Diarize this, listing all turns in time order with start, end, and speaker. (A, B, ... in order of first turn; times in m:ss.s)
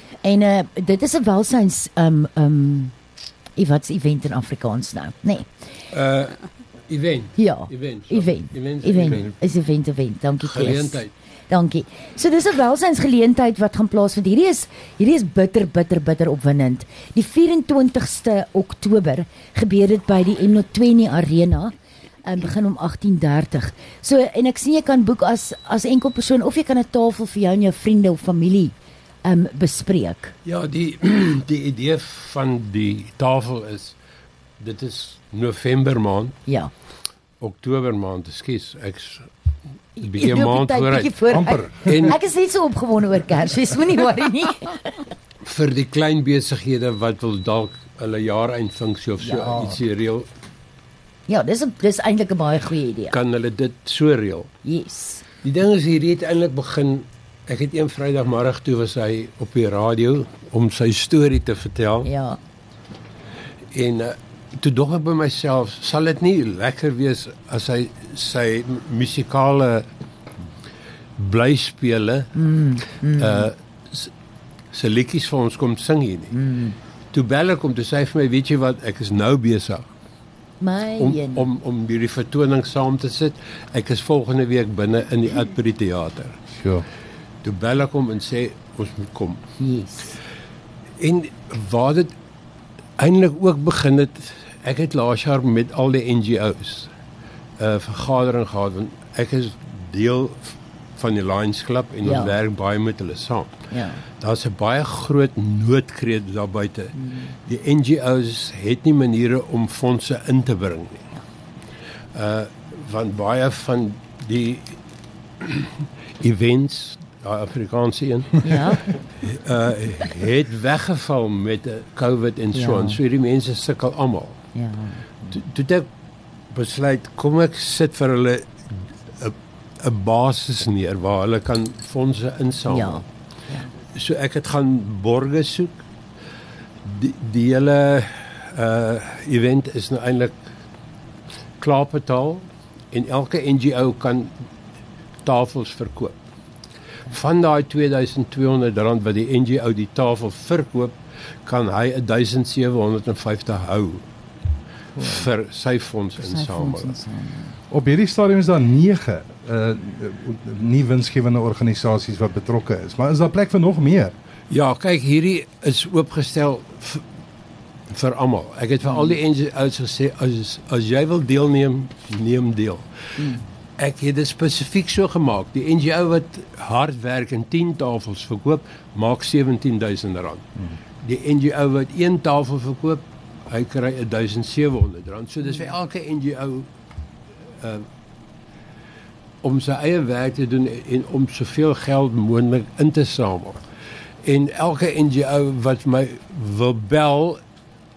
0:00.2-0:02.9 A
0:03.6-0:05.5 A
0:05.9-0:09.4 B
0:07.4-0:21.7 A
0:10.4-0:11.1 B
0:22.2-0:30.3 A
0:30.4-0:34.0 B
0:34.6-0:36.4 B
0:37.4-0:39.3 B
0:40.0-0:45.1 A
0:40.0-0:41.2 B
0:41.3-0:42.1 C
0:41.8-0:42.2 B
0:45.4-0:50.3 B
0:49.2-0:49.7 A
0:51.3-0:53.2 A
0:53.1-0:54.5 B
0:54.6-0:55.2 A
0:55.4-1:02.1 B
1:02.0-1:02.4 A
1:03.7-1:09.9 B
1:11.2-1:12.3 B
1:12.4-1:13.5 A
1:13.1-1:14.1 B
1:14.7-1:16.3 B
1:16.3-1:16.8 A
1:17.1-1:19.8 B
1:20.6-1:21.5 A
1:21.0-1:26.4 B
1:26.6-1:26.8 C
1:27.4-1:29.4 B
1:29.6-1:30.2 A
1:31.0-1:32.1 B
1:33.0-1:36.9 B
1:37.6-1:43.6 B
1:42.0-1:42.3 A
1:43.7-1:44.0 A
1:44.2-1:47.0 B
1:47.0-1:47.3 A
1:47.5-1:51.1 B
1:52.1-1:54.8 B
1:55.4-2:04.4 B
1:58.4-1:58.9 A
2:02.5-2:03.0 A
2:04.5-2:05.0 A
2:05.3-2:05.9 B
2:06.5-2:13.0 B
2:12.7-2:13.7 A
2:13.9-2:15.8 B
2:16.8-2:20.4 B
2:21.6-2:24.3 B
2:25.2-2:26.2 B
2:27.1-2:31.0 B
2:31.5-2:34.0 B
2:35.0-2:35.2 C
2:35.0-2:37.0 B
2:36.2-2:37.6 A
2:37.7-2:44.2 C
2:44.5-2:47.0 B
2:47.9-2:52.9 B
2:53.8-3:00.5 B
3:01.0-3:06.7 B
3:07.6-3:07.9 B
3:09.4-3:13.6 B
3:14.2-3:17.4 B